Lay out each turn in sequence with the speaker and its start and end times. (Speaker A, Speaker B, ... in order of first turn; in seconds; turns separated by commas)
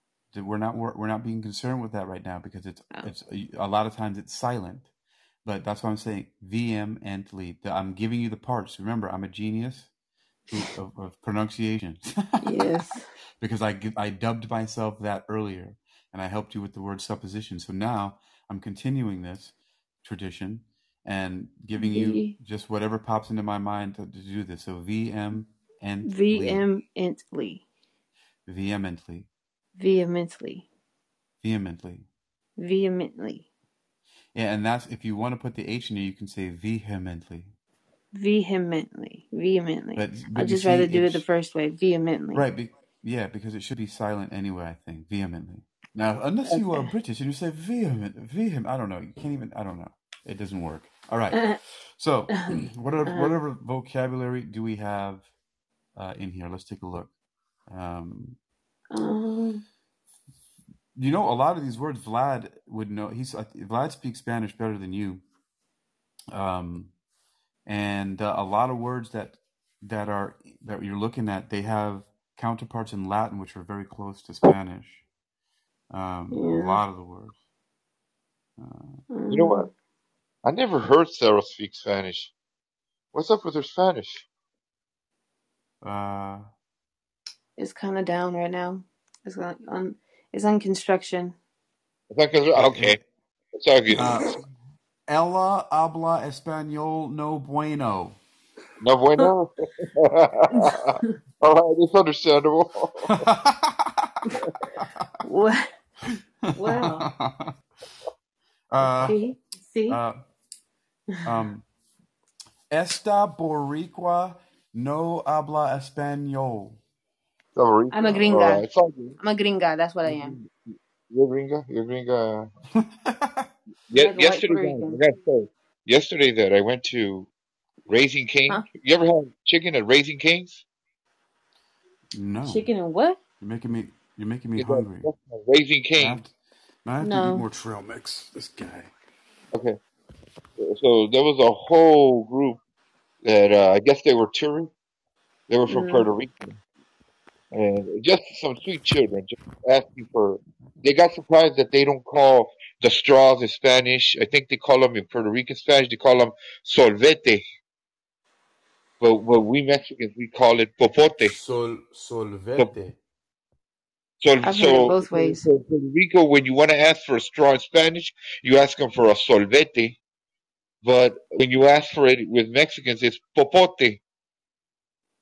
Speaker A: 0.3-4.9, Speaker A: 5.5-9.9, Speaker A: 10.5-12.7, Speaker B: 12.4-13.1, Speaker A: 13.4-26.6, Speaker B: 21.8-22.4, Speaker B: 26.1-27.6, Speaker A: 28.5-29.3, Speaker B: 29.8-30.7, Speaker A: 31.4-32.1, Speaker B: 32.6-33.5, Speaker A: 34.4-37.5, Speaker B: 38.1-42.5, Speaker A: 40.0-41.2, Speaker A: 42.3-55.3, Speaker B: 53.1-53.4, Speaker A: 56.0-57.1, Speaker A: 57.7-58.4, Speaker B: 58.9-59.6, Speaker A: 61.0-65.2, Speaker A: 66.3-66.9, Speaker A: 67.7-75.0, Speaker A: 75.9-77.4, Speaker B: 76.3-76.8, Speaker A: 78.6-79.0, Speaker B: 79.1-79.7, Speaker C: 79.3-79.7, Speaker C: 80.4-82.3, Speaker C: 83.1-84.3, Speaker A: 85.8-86.5, Speaker B: 87.6-91.3, Speaker C: 92.1-93.0, Speaker A: 92.5-93.0, Speaker C: 93.6-94.3, Speaker A: 93.9-94.4, Speaker A: 95.1-98.2, Speaker C: 98.8-103.2, Speaker B: 100.5-101.1, Speaker A: 103.0-105.1, Speaker B: 105.2-105.7, Speaker A: 106.5-107.6, Speaker B: 106.5-107.1, Speaker A: 108.7-109.2, Speaker B: 109.0-110.0, Speaker A: 109.9-110.2, Speaker A: 111.2-111.6, Speaker A: 112.7-116.8, Speaker C: 117.5-119.2, Speaker B: 117.9-120.4, Speaker C: 120.0-120.5, Speaker C: 121.1-122.5, Speaker A: 122.8-123.5, Speaker C: 123.9-127.3, Speaker B: 124.0-125.0, Speaker C: 127.9-130.6, Speaker A: 132.1-132.7, Speaker B: 132.4-133.2, Speaker A: 133.4-135.1, Speaker C: 134.6-136.2, Speaker A: 136.0-136.3, Speaker A: 136.8-138.9, Speaker B: 137.0-137.4, Speaker C: 139.5-139.8, Speaker C: 140.6-142.6, Speaker C: 143.2-144.7, Speaker C: 145.5-146.6, Speaker B: 145.7-146.1, Speaker C: 147.5-157.4, Speaker C: 159.0-161.3, Speaker A: 161.2-163.0, Speaker C: 164.2-170.0, Speaker B: 164.4-165.4, Speaker C: 170.8-174.0